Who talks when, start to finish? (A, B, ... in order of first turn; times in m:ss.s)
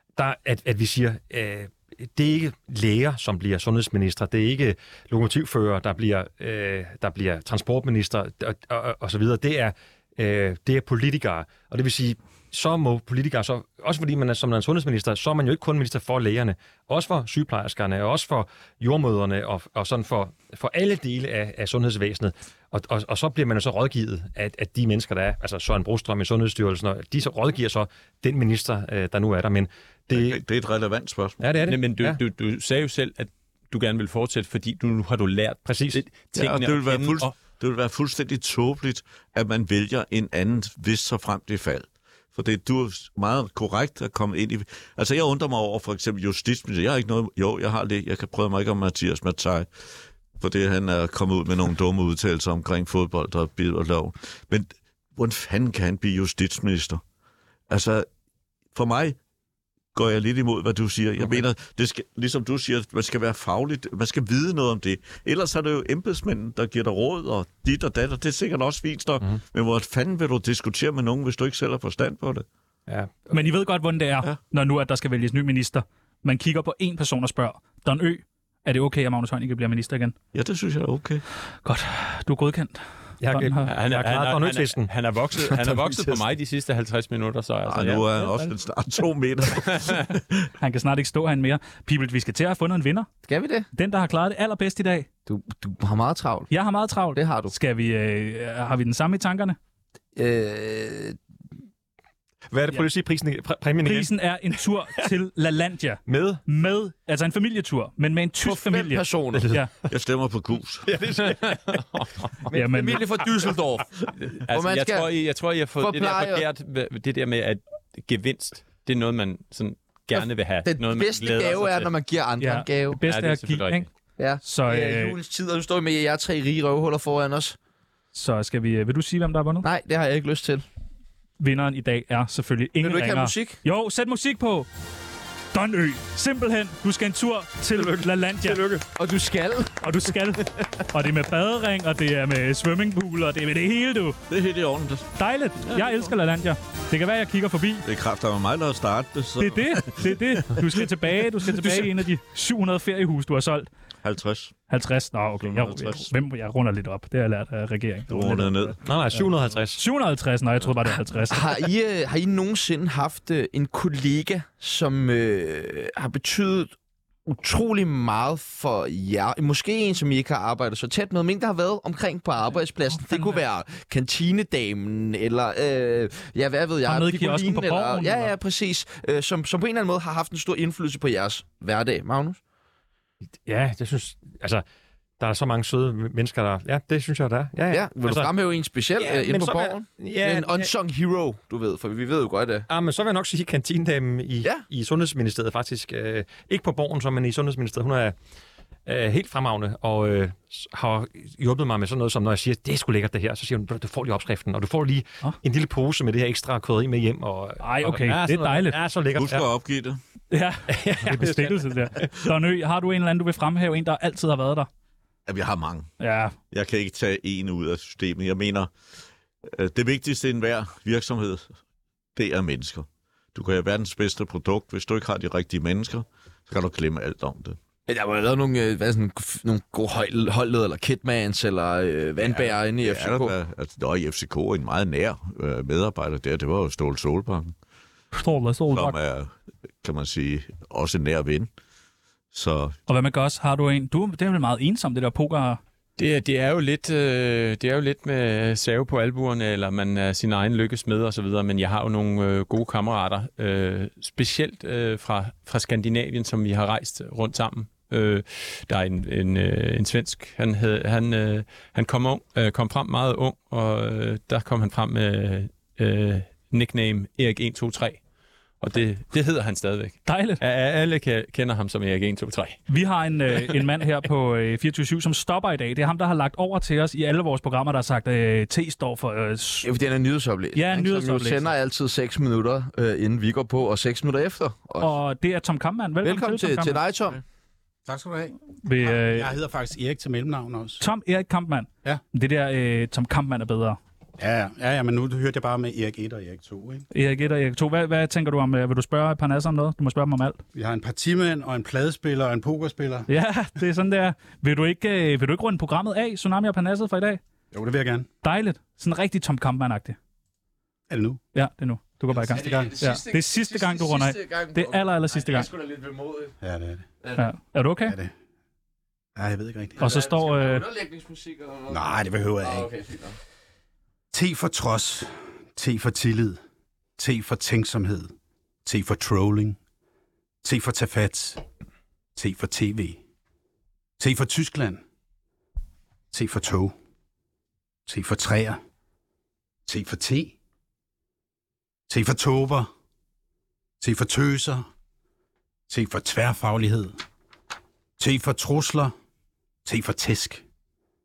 0:00.2-0:30.4 A
0:30.1-0:31.4 B
0:31.4-0:32.2 A
0:31.7-0:37.3 C
0:35.6-0:36.0 A
0:36.3-0:49.7 B
0:50.4-0:57.0 B
0:57.7-0:58.1 B
0:58.7-0:59.2 B
0:59.9-1:12.4 B
1:12.9-1:13.5 A
1:13.3-1:20.1 D
1:20.3-1:21.2 B
1:21.6-1:23.7 D
1:23.2-1:24.9 A
1:23.6-1:28.1 C
1:25.3-1:26.2 E
1:27.6-1:30.4 B
1:30.6-1:33.1 D
1:33.2-1:33.7 E
1:33.7-1:35.1 D
1:35.2-1:36.5 E
1:36.5-1:39.6 D
1:37.1-1:37.5 E
1:40.2-1:41.2 E
1:42.5-1:44.1 A
1:43.8-1:49.7 D
1:46.0-1:46.4 A
1:48.4-1:49.5 E
1:49.9-1:50.9 B
1:50.8-1:51.8 E
1:51.2-1:52.4 C
1:52.4-1:53.9 E
1:52.5-1:53.1 D
1:54.2-2:01.9 C
1:54.5-1:55.1 E
1:55.8-1:56.4 E
2:00.6-2:03.0 E
2:02.4-2:03.9 D
2:03.0-2:03.9 C
2:04.2-2:07.6 E
2:04.4-2:05.2 D
2:08.1-2:09.7 D
2:09.6-2:10.6 E
2:11.4-2:14.7 D
2:12.8-2:13.6 E
2:15.5-2:18.6 D
2:17.7-2:20.6 E
2:19.8-2:24.2 D
2:24.3-2:26.1 B
2:25.2-2:27.8 D
2:27.8-2:30.9 B
2:29.4-2:33.7 D
2:31.5-2:31.8 B
2:34.0-2:34.6 B
2:34.7-2:38.7 D
2:35.4-2:36.1 B
2:38.1-2:38.8 B
2:38.8-2:39.8 A
2:39.8-2:41.6 D
2:41.3-2:46.7 E
2:47.2-3:02.4 E
2:52.9-2:53.4 D
2:56.8-2:58.3 D
3:03.4-3:04.6 A
3:05.2-3:08.3 A
3:07.7-3:12.7 E
3:09.0-3:10.7 A
3:12.7-3:18.2 A
3:18.8-3:29.5 A
3:27.6-3:28.8 D
3:29.1-3:30.0 B
3:30.3-3:34.7 D
3:30.7-3:32.1 A
3:35.3-3:35.9 B
3:36.0-3:36.3 D
3:36.5-3:38.7 B
3:39.5-3:41.5 B
3:42.2-3:47.6 B
3:47.9-3:53.3 E
3:52.2-3:57.5 B
3:58.1-3:59.0 D
3:58.7-4:01.5 B
4:02.3-4:02.7 B
4:02.9-4:05.6 D
4:06.0-4:28.0 C
4:28.6-4:32.6 C
4:30.0-4:30.4 D
4:32.7-4:39.7 D
4:39.6-4:45.0 E
4:40.5-4:41.5 D
4:44.8-4:46.8 D
4:46.0-4:47.2 E
4:47.8-4:50.8 F
4:48.6-4:49.3 D
4:50.8-4:53.8 D
4:54.2-4:56.8 F
4:56.9-5:00.4 D
5:00.5-5:03.1 F
5:03.1-5:07.2 D
5:07.5-5:08.1 F
5:08.2-5:10.0 D
5:10.9-5:11.2 F
5:11.3-5:15.5 D
5:12.1-5:16.3 E
5:12.2-5:12.8 F
5:16.4-5:16.8 F
5:17.1-5:18.0 D
5:17.8-5:18.1 F
5:19.2-5:19.8 F
5:19.8-5:21.8 E
5:19.8-5:20.6 D
5:21.7-5:22.7 F
5:22.4-5:23.2 E
5:24.1-5:26.4 F
5:27.0-5:28.1 F
5:28.6-5:29.6 F
5:30.4-5:31.4 F
5:32.2-5:33.0 F
5:34.0-5:34.8 F
5:36.1-5:36.7 F
5:37.9-5:38.6 F
5:39.6-5:40.4 F
5:41.9-5:42.7 F
5:43.8-5:44.6 F
5:45.7-5:47.0 F
5:48.0-5:48.9 F
5:49.6-5:50.4 F